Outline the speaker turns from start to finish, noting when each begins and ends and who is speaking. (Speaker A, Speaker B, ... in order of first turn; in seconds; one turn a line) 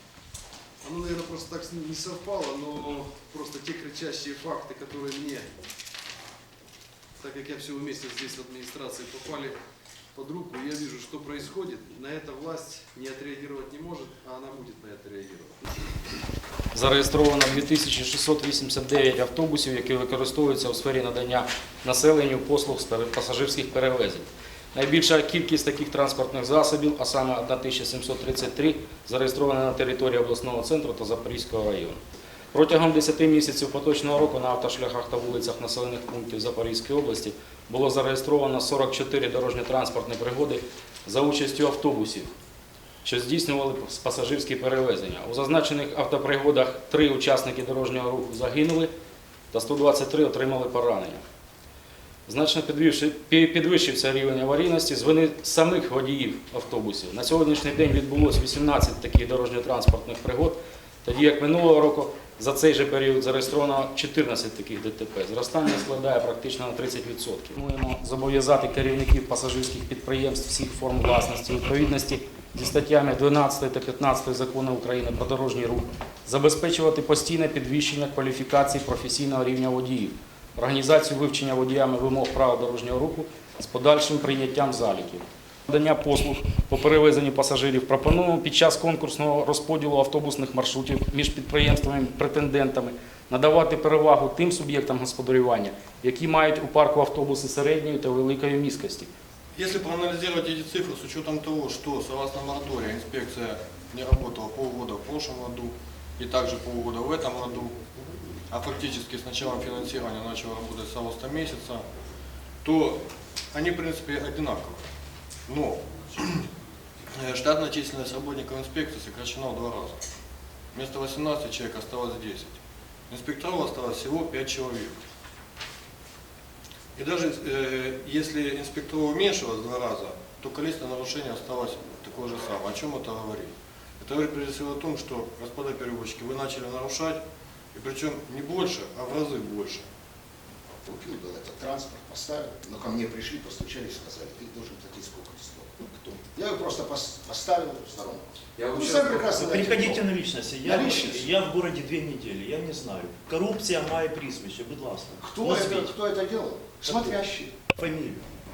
Speaker A: 0.8-5.5
Speaker A: 7.2-9.6
Speaker A: 10.1-15.8
Speaker B: 16.7-32.0
Speaker B: 32.5-42.3
Speaker B: 43.0-48.9
Speaker B: 49.5-51.2
Speaker B: 52.3-99.1
Speaker C: 99.5-107.8
Speaker C: 108.5-111.8
Speaker C: 112.6-114.8
Speaker C: 115.5-116.5
Speaker C: 117.1-120.0
Speaker C: 120.7-122.6
Speaker C: 123.1-125.0
Speaker C: 127.0-137.2
Speaker C: 137.7-139.8
Speaker D: 140.8-150.0
Speaker E: 149.2-155.9
Speaker D: 150.6-151.3
Speaker D: 155.2-157.5
Speaker E: 156.8-157.2
Speaker E: 157.7-158.2